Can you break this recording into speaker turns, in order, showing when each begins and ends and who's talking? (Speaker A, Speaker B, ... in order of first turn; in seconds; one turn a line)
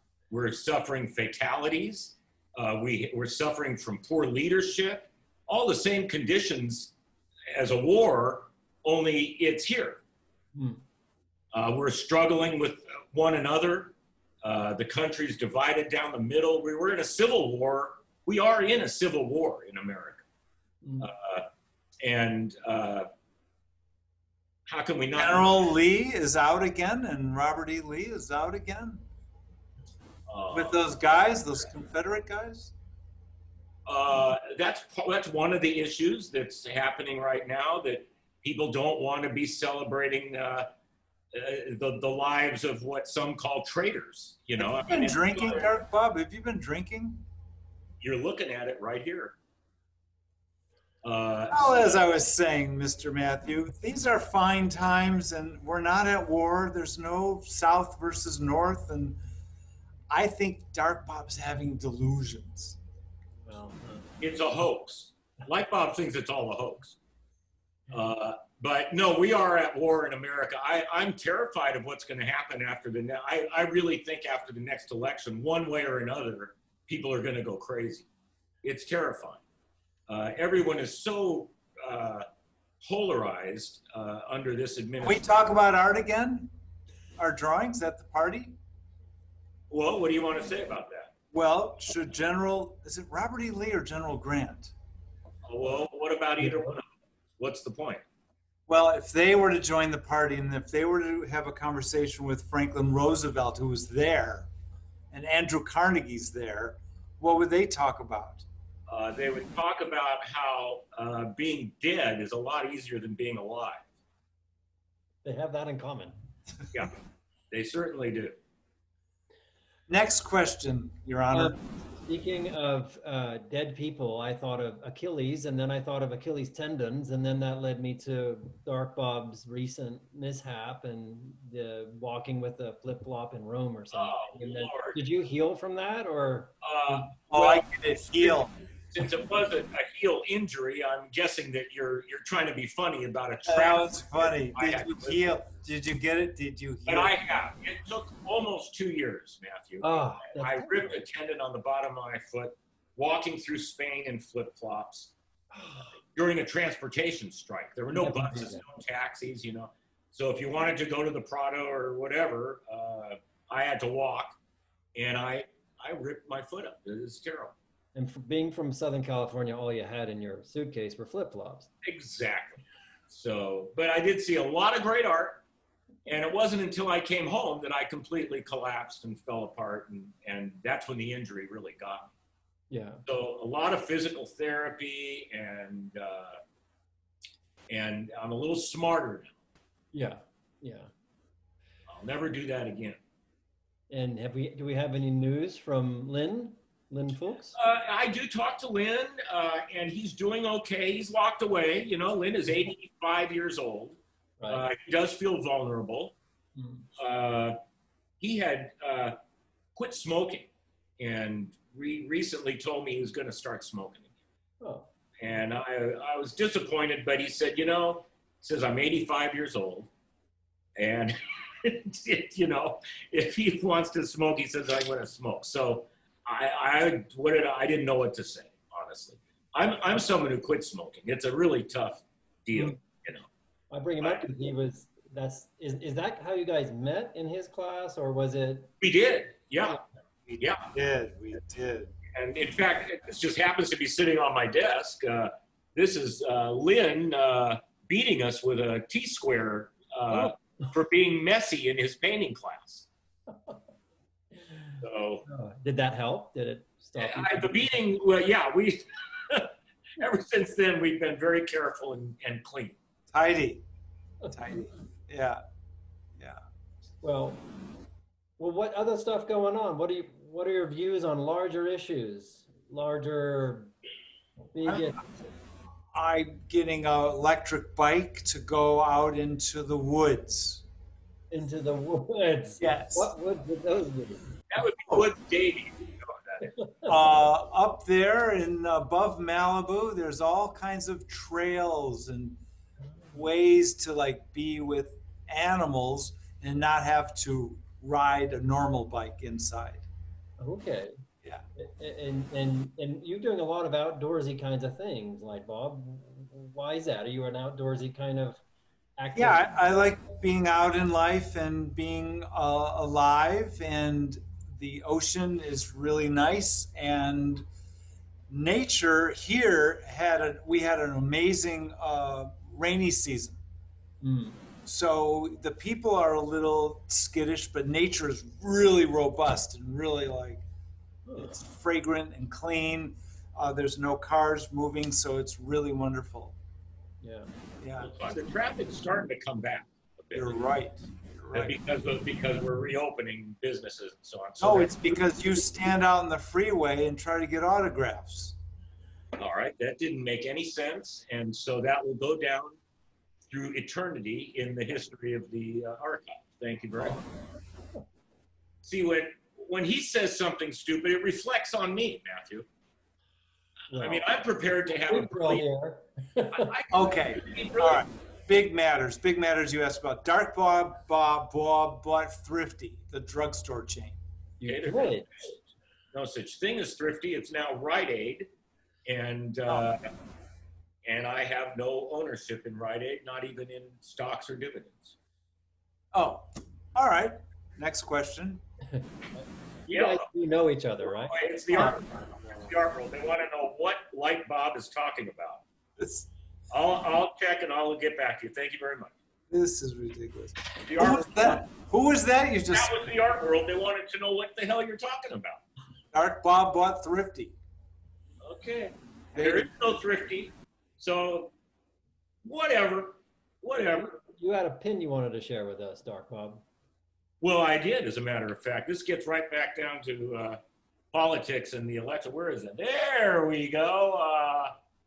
Speaker A: 0.3-6.9
Speaker A: 7.5-10.0
Speaker B: 10.5-10.8
Speaker A: 11.5-20.2
Speaker B: 20.8-21.1
Speaker A: 21.0-21.4
Speaker A: 22.0-23.1
Speaker A: 24.7-25.5
Speaker C: 25.1-29.0
Speaker A: 30.3-30.8
Speaker C: 30.5-32.7
Speaker A: 33.9-40.7
Speaker A: 41.3-45.7
Speaker C: 44.6-47.2
Speaker A: 48.0-49.4
Speaker A: 51.0-52.0
Speaker C: 51.5-59.2
Speaker C: 60.1-62.8
Speaker B: 63.5-64.1
Speaker A: 64.2-67.0
Speaker A: 67.9-78.1
Speaker A: 78.6-79.4
Speaker A: 80.1-82.2
Speaker A: 82.8-85.2
Speaker C: 85.0-86.5
Speaker C: 87.2-88.5
Speaker A: 89.7-91.1
Speaker C: 91.3-94.7
Speaker A: 95.5-96.8
Speaker B: 96.4-96.7
Speaker A: 97.4-98.0
Speaker C: 98.7-104.5
Speaker C: 105.1-108.5
Speaker A: 108.9-113.8
Speaker B: 115.2-116.2
Speaker A: 117.5-118.4
Speaker C: 119.9-121.6
Speaker B: 121.3-136.5
Speaker A: 133.9-135.0
Speaker A: 136.6-137.7
Speaker C: 136.9-138.5
Speaker A: 138.2-145.4
Speaker C: 143.4-147.2
Speaker A: 146.9-155.1
Speaker B: 149.8-151.0
Speaker B: 155.5-155.9
Speaker A: 156.1-164.4
Speaker B: 157.9-158.6
Speaker A: 164.9-167.6
Speaker B: 167.9-171.7
Speaker A: 171.8-175.4
Speaker A: 176.1-182.1
Speaker B: 182.7-183.0
Speaker A: 183.0-186.4
Speaker A: 187.7-189.4
Speaker B: 189.9-190.9
Speaker A: 191.9-193.0
Speaker B: 193.9-197.6
Speaker A: 197.5-206.2
Speaker B: 204.4-204.7
Speaker B: 206.6-206.9
Speaker A: 207.0-207.6
Speaker A: 208.2-209.2
Speaker A: 209.8-214.1
Speaker B: 214.6-214.9
Speaker A: 215.2-219.9
Speaker A: 220.8-233.3
Speaker B: 233.7-238.7
Speaker A: 234.0-234.2
Speaker A: 238.8-239.8
Speaker C: 240.3-241.9
Speaker A: 240.4-240.7
Speaker A: 242.1-252.9
Speaker A: 254.8-255.2
Speaker B: 255.2-257.7
Speaker A: 257.0-262.8
Speaker C: 263.1-263.6
Speaker C: 264.3-265.4
Speaker B: 267.0-267.4
Speaker B: 268.4-273.7
Speaker B: 274.5-275.1
Speaker C: 274.6-275.0
Speaker C: 275.9-280.6
Speaker B: 281.3-284.2
Speaker C: 282.6-283.1
Speaker A: 284.5-286.5
Speaker B: 286.6-286.9
Speaker C: 286.9-292.4
Speaker C: 293.1-299.9
Speaker B: 300.4-300.9
Speaker B: 301.6-308.4
Speaker B: 309.0-309.9
Speaker C: 309.1-317.4
Speaker C: 318.3-323.4
Speaker B: 324.0-324.4
Speaker C: 324.6-330.4
Speaker B: 331.1-331.3
Speaker C: 331.1-336.4
Speaker B: 337.0-337.3
Speaker C: 337.6-337.9
Speaker A: 337.8-340.4
Speaker C: 340.1-341.6
Speaker A: 341.3-344.9
Speaker C: 344.4-348.4
Speaker A: 349.2-352.6
Speaker A: 353.3-357.0
Speaker A: 358.6-362.4
Speaker B: 363.7-364.1
Speaker A: 363.7-365.4
Speaker B: 364.9-366.5
Speaker A: 366.3-367.8
Speaker C: 366.7-374.0
Speaker B: 374.4-375.3
Speaker A: 374.4-378.3
Speaker A: 378.9-379.8
Speaker A: 380.9-384.9
Speaker C: 385.9-388.4
Speaker B: 388.7-391.7
Speaker A: 389.7-390.1
Speaker A: 390.8-395.4
Speaker C: 395.8-396.1
Speaker A: 396.5-398.9
Speaker C: 399.3-402.8
Speaker A: 400.6-401.4
Speaker A: 402.5-405.4
Speaker C: 405.9-407.4
Speaker A: 408.2-411.3
Speaker C: 409.1-409.5
Speaker A: 412.2-414.0
Speaker B: 413.6-416.4
Speaker A: 417.2-420.4
Speaker A: 420.9-424.5